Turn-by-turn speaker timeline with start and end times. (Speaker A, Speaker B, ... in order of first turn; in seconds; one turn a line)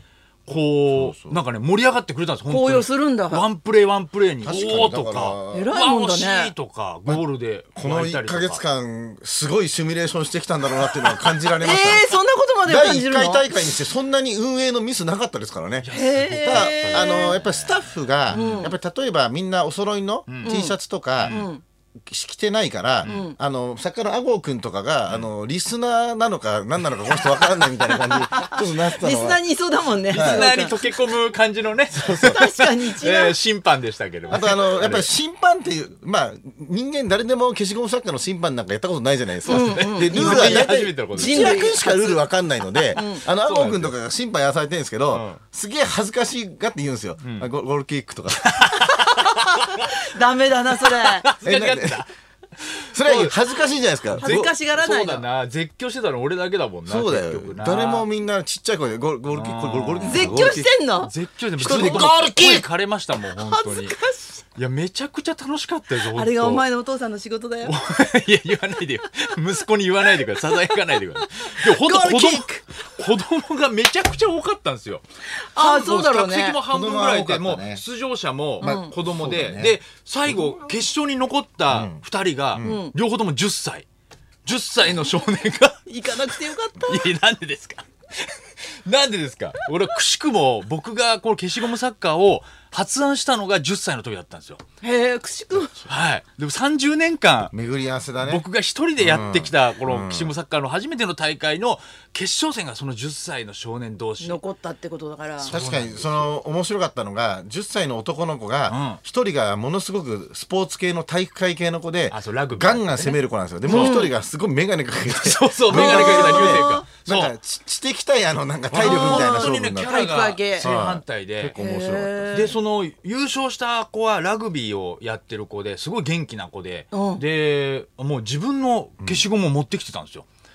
Speaker A: 0.5-8.6
Speaker B: 0.9-1.4
Speaker C: 2.5-3.5
Speaker B: 4.4-5.7
Speaker C: 5.5-6.5
Speaker B: 7.7-21.4
Speaker C: 11.6-13.5
Speaker A: 15.8-18.7
Speaker C: 15.9-17.4
Speaker C: 18.3-18.7
Speaker A: 20.3-20.5
Speaker C: 20.4-20.8
Speaker A: 21.2-21.5
Speaker C: 21.3-21.6
Speaker B: 22.1-29.4
Speaker A: 23.0-23.3
Speaker C: 23.1-23.4
Speaker C: 28.1-30.8
Speaker A: 30.1-35.1
Speaker B: 30.1-30.5
Speaker C: 32.1-33.4
Speaker B: 34.3-48.5
Speaker A: 39.4-41.6
Speaker C: 39.5-42.2
Speaker C: 42.9-43.2
Speaker A: 43.0-43.9
Speaker A: 45.1-45.4
Speaker A: 47.2-47.5
Speaker A: 48.4-50.1
Speaker C: 48.9-51.3
Speaker A: 50.8-52.1
Speaker B: 51.4-52.0
Speaker A: 52.6-53.3
Speaker B: 52.9-54.5
Speaker A: 54.1-58.1
Speaker C: 54.2-55.2
Speaker B: 56.9-60.7
Speaker A: 59.3-64.0
Speaker C: 60.0-62.5
Speaker B: 61.6-62.7
Speaker C: 63.4-64.4
Speaker A: 64.5-66.6
Speaker C: 66.0-67.8
Speaker A: 67.6-75.0
Speaker C: 71.2-72.6
Speaker C: 75.3-76.6
Speaker A: 75.5-83.8
Speaker B: 76.7-77.8
Speaker C: 78.6-78.9
Speaker B: 78.6-79.8
Speaker B: 81.7-82.8
Speaker C: 82.6-82.9
Speaker A: 84.5-94.6
Speaker C: 85.9-87.0
Speaker C: 94.8-95.8
Speaker A: 95.8-97.5
Speaker B: 97.5-98.4
Speaker A: 98.2-104.4
Speaker B: 99.0-100.3
Speaker C: 104.2-105.5
Speaker A: 105.4-106.3
Speaker B: 105.5-120.0
Speaker A: 108.7-109.0
Speaker A: 112.1-114.1
Speaker C: 113.7-114.1
Speaker A: 115.0-117.3
Speaker C: 115.7-116.8
Speaker A: 118.7-121.6
Speaker C: 118.8-120.7
Speaker B: 120.6-122.5
Speaker C: 121.6-122.5
Speaker A: 122.3-130.3
Speaker C: 126.9-127.2